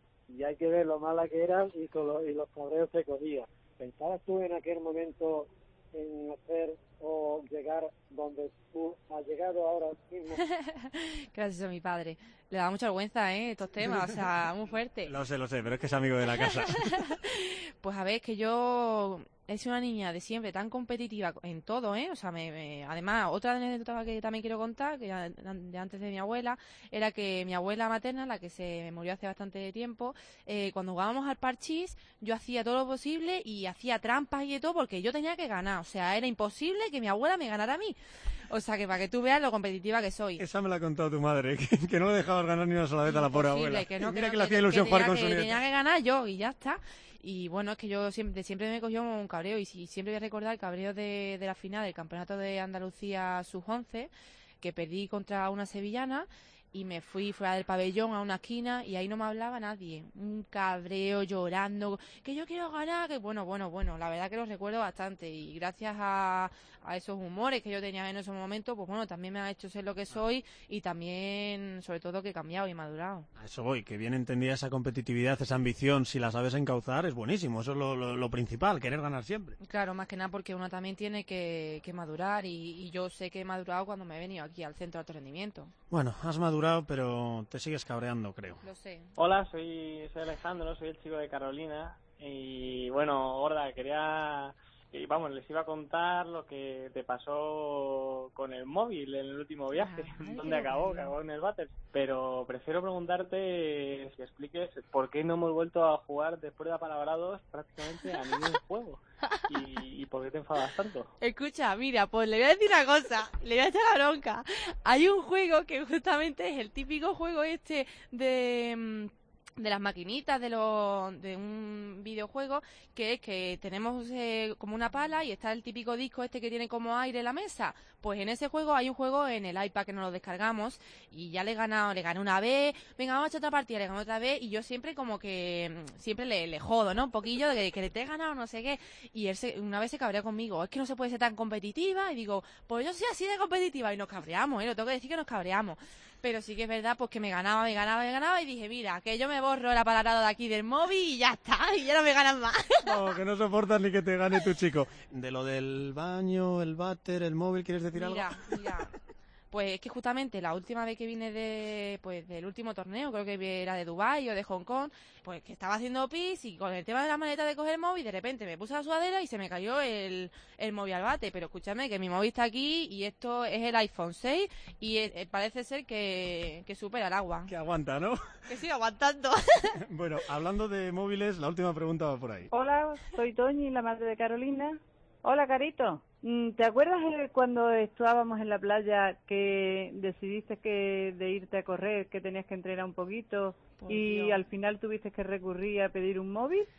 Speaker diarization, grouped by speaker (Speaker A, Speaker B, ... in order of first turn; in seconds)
Speaker A: 0.3-10.4
Speaker B: 10.4-15.1, 16.7-38.0, 38.5-40.4, 43.0-54.1, 54.6-73.3, 79.6-85.7, 88.6-89.1, 99.7-101.1, 111.2-153.0, 157.9-158.9, 159.5-177.5, 178.5-179.8, 193.8-194.4
Speaker C: 13.9-14.2, 15.1-17.1, 40.4-45.6, 73.4-79.6, 85.9-88.6, 152.8-158.6, 177.5-178.2, 179.8-182.5
Speaker D: 89.2-111.1
Speaker E: 182.5-196.7